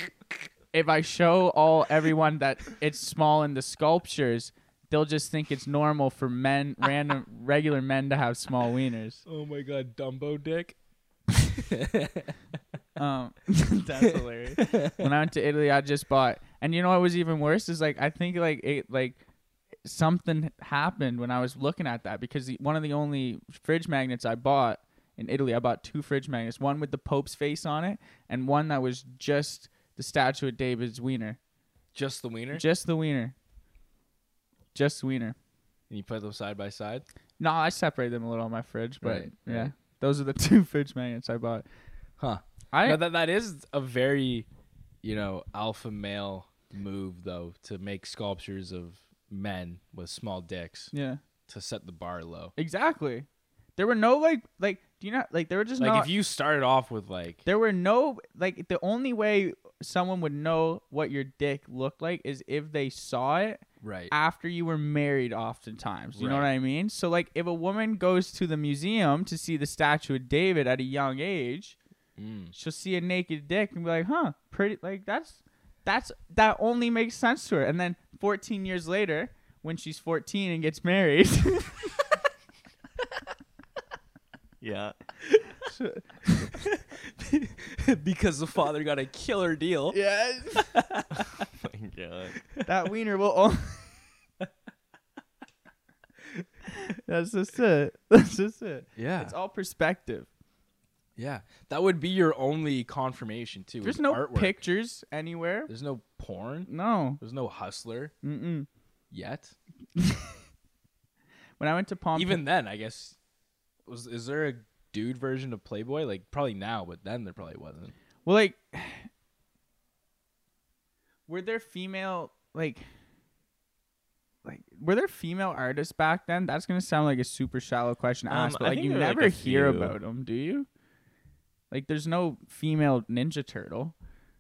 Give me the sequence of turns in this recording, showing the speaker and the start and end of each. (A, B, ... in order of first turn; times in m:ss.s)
0:00.7-0:09.2 A
0:09.3-0:10.8 B
0:11.5-0:12.4 B
0:13.0-0:19.2 A
0:14.1-0:15.1 B
0:19.8-0:31.4 A
0:31.9-0:32.6 B
0:32.5-0:33.4 A
0:34.7-0:35.4 A
0:35.9-0:37.0 B
0:37.4-0:41.6 A
0:39.0-0:39.7 B
0:42.2-0:44.5 B
0:42.7-0:43.0 A
0:45.0-0:50.9 B
0:50.9-0:51.2 A
0:51.5-0:52.5 B
0:52.6-0:56.1 A
0:55.8-0:57.4 B
0:57.5-1:11.8 A
1:03.8-1:04.1 B
1:06.2-1:06.5 B
1:12.2-1:12.5 B
1:12.5-1:22.0 A
1:24.6-1:25.0 C
1:25.7-1:26.6 A
1:26.5-1:30.0 B
1:29.9-1:30.7 A
1:30.6-1:31.5 B
1:31.5-1:32.4 C
1:32.6-1:34.1 A
1:36.9-1:40.3 A
1:39.0-1:39.3 B
1:41.2-1:44.6 B
1:43.8-1:45.7 A
1:45.7-1:48.1 B
1:46.7-1:47.2 A
1:48.2-1:48.7 A
1:49.1-1:49.6 B
1:50.0-1:50.4 A
1:51.6-1:52.4 A
1:52.2-1:53.2 B
1:53.9-1:57.9 B
1:58.2-1:59.1 A
2:01.3-2:02.9 A
2:04.4-2:10.7 A
2:08.3-2:10.0 C
2:11.7-2:14.0 A